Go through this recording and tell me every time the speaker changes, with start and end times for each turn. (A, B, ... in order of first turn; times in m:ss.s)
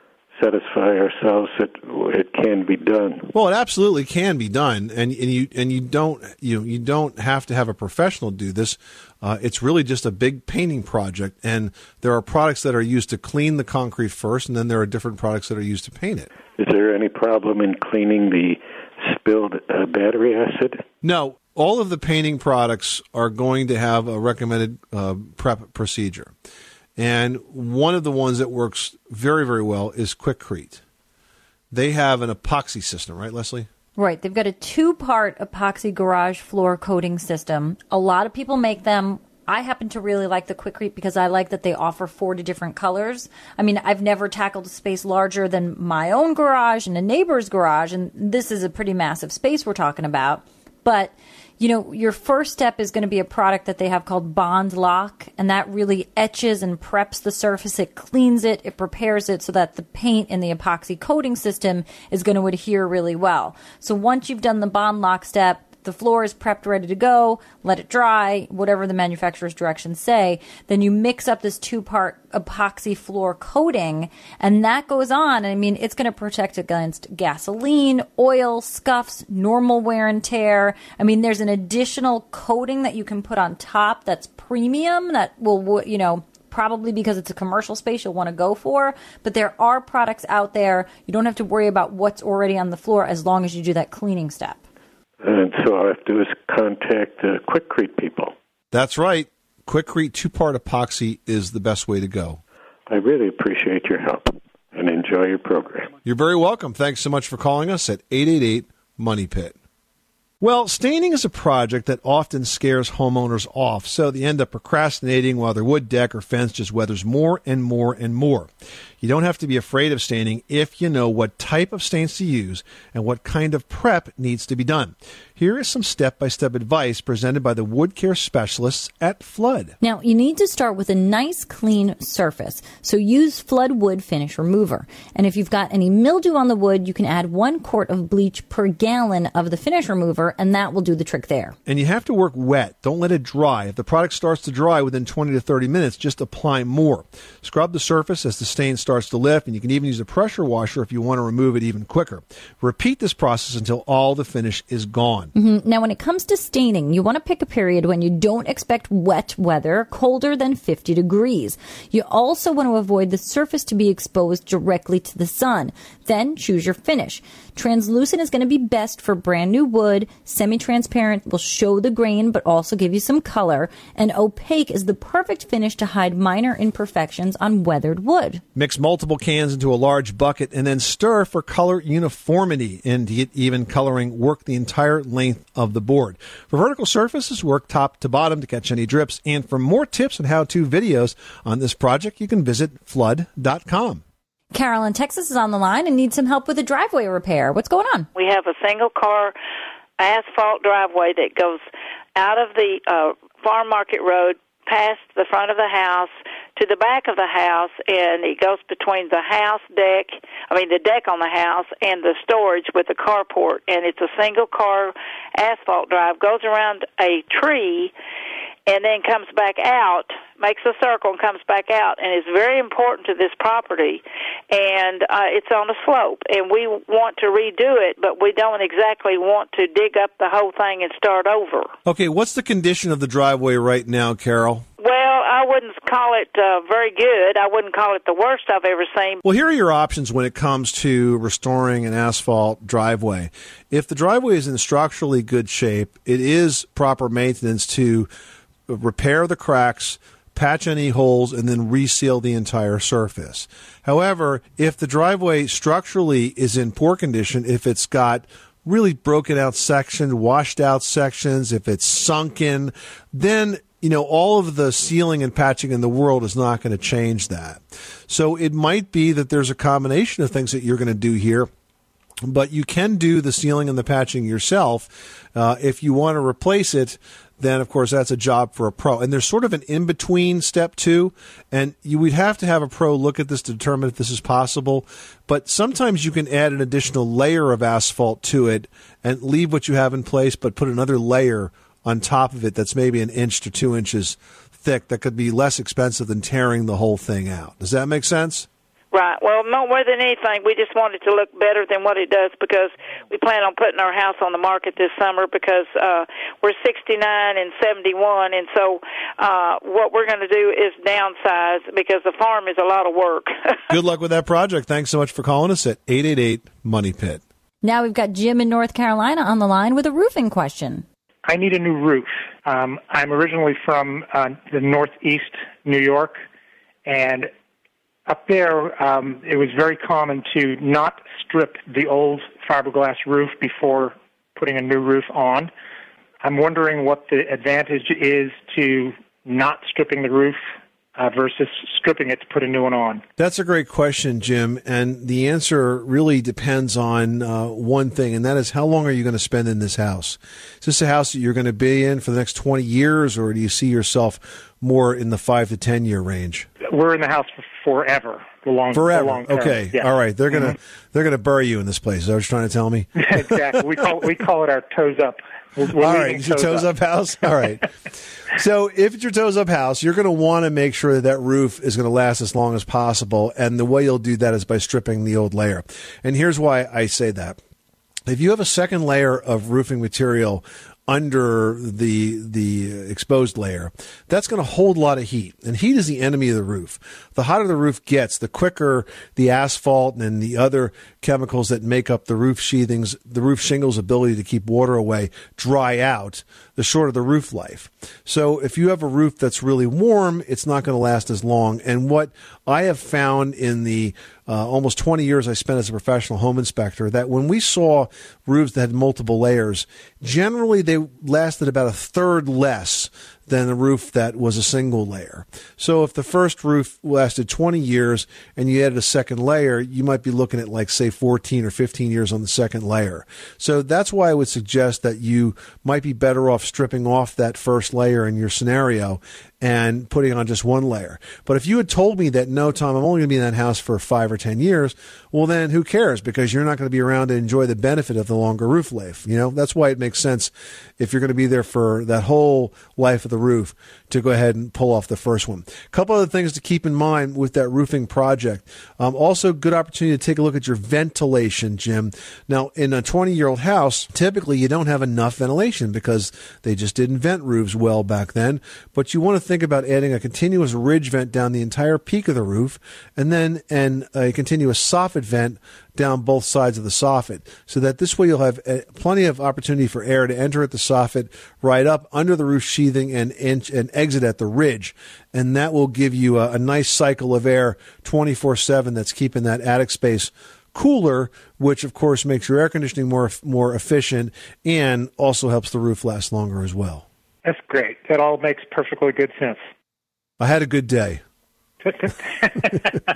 0:00.4-0:03.3 A
0:03.3-0:16.3 B
0:16.6-0:20.8 A
0:21.0-0:26.3 B
0:27.0-0:30.8 B
0:31.7-0:33.7 B
0:34.0-1:34.6 C
1:35.2-1:38.3 A
1:38.7-1:42.4 B
1:42.9-1:45.9 A
1:46.0-1:49.6 B
1:50.4-2:09.8 B
2:09.8-2:21.6 C
2:21.7-2:35.3 B
2:35.4-2:58.4 C
2:58.6-3:14.0 B
3:14.5-3:18.1 C
3:18.2-3:19.4 D
3:20.0-3:21.6 D
3:22.2-3:37.9 D
3:38.7-3:51.7 D
3:51.9-3:54.7 B
3:54.8-3:59.2 D
3:59.2-4:08.1 B
4:08.7-4:31.5 B
4:32.2-4:58.5 B
4:58.9-5:13.6 D
5:13.7-5:17.2 B
5:17.6-5:20.9 C
5:21.3-5:26.2 E
5:26.9-5:27.3 E
5:28.1-5:35.5 E
5:36.2-5:40.4 E
5:41.0-5:43.0 E
5:43.2-5:56.5 B
5:56.6-6:00.6 E
5:58.7-6:03.0 B
6:03.0-6:06.7 E
6:05.8-6:07.7 B
6:08.3-6:17.4 B
6:18.1-8:06.8 B
8:07.2-8:09.4 E
8:10.2-8:11.0 B
8:11.6-8:12.6 E